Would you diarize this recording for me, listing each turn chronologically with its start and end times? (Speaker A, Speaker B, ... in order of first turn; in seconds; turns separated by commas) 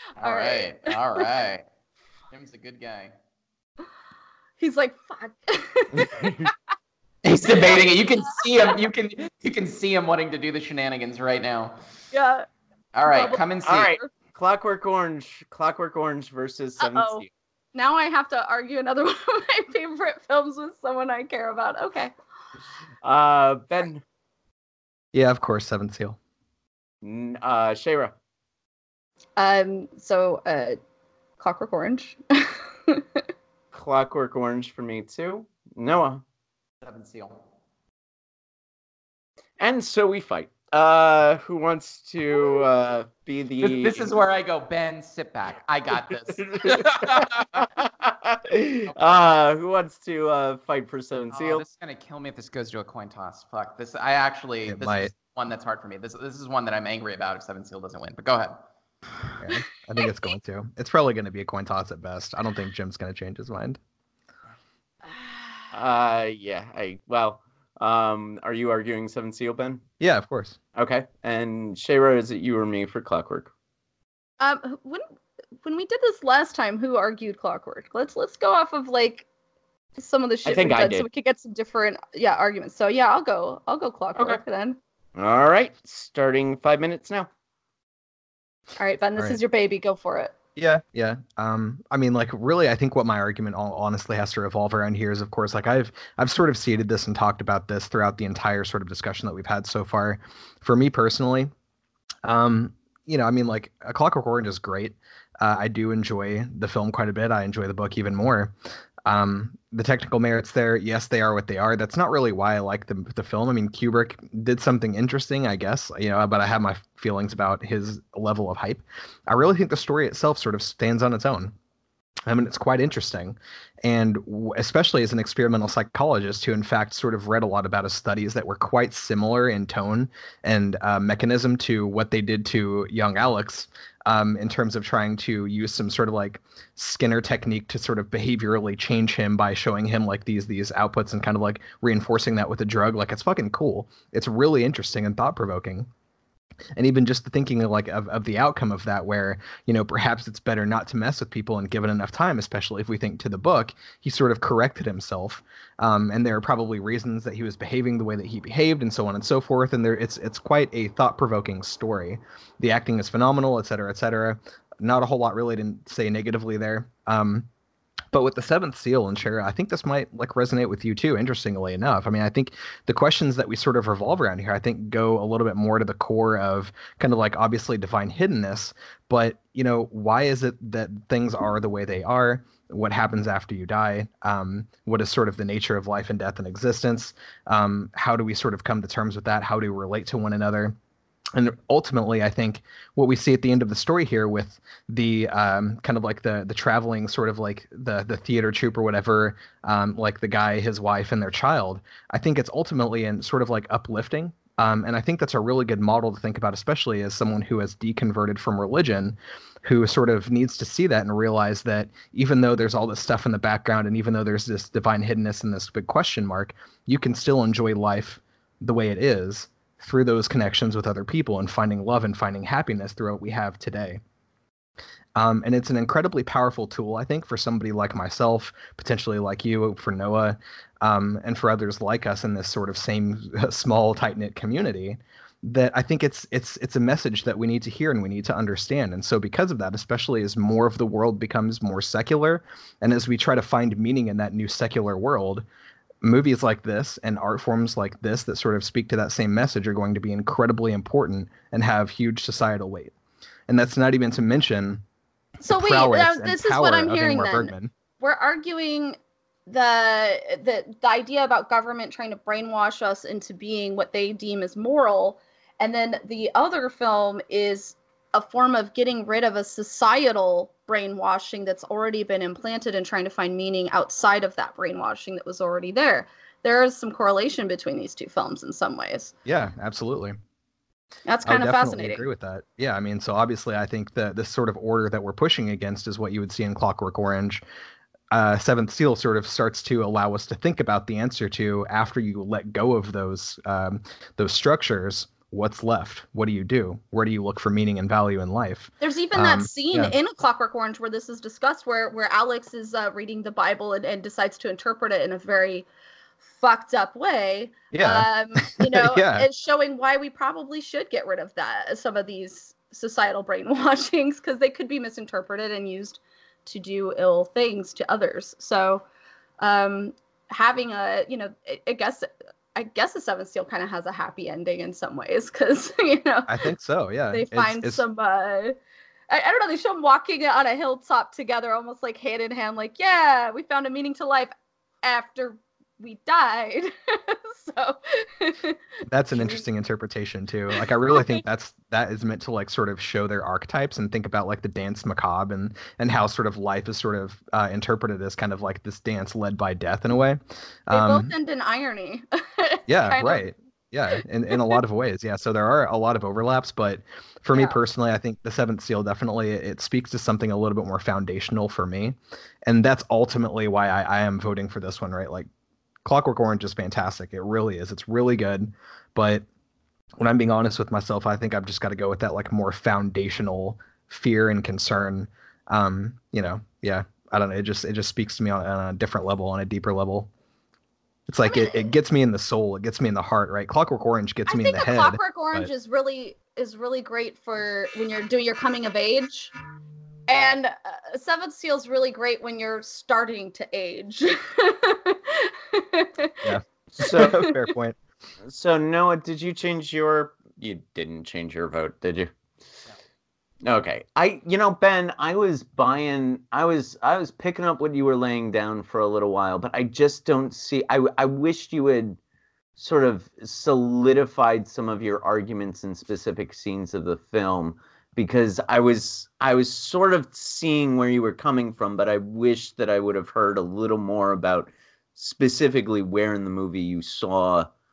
Speaker A: 0.2-0.9, Speaker B: 0.2-1.6, Speaker B: 2.3-3.1, Speaker A: 4.6-6.5, Speaker C: 5.9-6.5, Speaker B: 7.2-11.8, Speaker A: 12.1-12.5, Speaker B: 12.9-14.0, Speaker A: 13.1-13.4, Speaker C: 13.1-17.3, Speaker A: 16.8-22.1, Speaker C: 23.0-24.0, Speaker D: 25.1-26.2, Speaker C: 27.0-28.1, Speaker A: 29.4-30.8, Speaker A: 31.4-33.2, Speaker C: 33.7-36.2, Speaker B: 36.8-37.4, Speaker C: 39.6-44.1, Speaker B: 43.6-47.6, Speaker C: 46.3-51.6, Speaker B: 48.9-49.2, Speaker B: 51.3-58.6, Speaker D: 54.7-55.1, Speaker D: 59.4-63.8, Speaker A: 65.1-65.7, Speaker C: 65.7-69.8, Speaker D: 70.0-70.6, Speaker C: 70.8-73.5, Speaker A: 74.4-75.0, Speaker A: 75.6-79.3, Speaker A: 80.0-84.8, Speaker C: 80.5-81.1, Speaker C: 84.2-84.4, Speaker C: 85.2-87.3, Speaker A: 88.8-90.3, Speaker D: 90.6-101.5, Speaker D: 102.2-108.5, Speaker D: 109.1-121.5, Speaker D: 122.3-145.9, Speaker D: 146.8-167.5, Speaker D: 168.1-190.8, Speaker D: 191.3-224.0, Speaker D: 225.2-245.4, Speaker D: 246.0-252.9, Speaker D: 253.5-254.8, Speaker D: 255.4-257.7, Speaker A: 255.5-279.1, Speaker D: 279.3-280.2, Speaker A: 281.1-282.0, Speaker D: 281.2-287.4, Speaker D: 288.1-299.9, Speaker A: 298.8-305.7, Speaker A: 306.2-318.9, Speaker D: 307.7-309.3, Speaker A: 319.4-326.4, Speaker D: 326.3-327.8, Speaker A: 327.1-328.6, Speaker A: 329.1-334.3, Speaker A: 334.8-338.6, Speaker D: 338.9-351.1, Speaker A: 350.7-353.2, Speaker D: 352.7-365.3, Speaker A: 353.9-354.6, Speaker A: 357.3-357.6, Speaker D: 365.9-369.2, Speaker D: 370.0-380.1, Speaker D: 381.1-385.5, Speaker A: 381.2-381.6, Speaker A: 384.3-389.3, Speaker A: 390.1-396.3, Speaker D: 396.2-397.8, Speaker C: 396.8-397.2, Speaker A: 396.8-397.5, Speaker C: 398.3-402.1, Speaker C: 403.4-412.0, Speaker C: 412.6-427.5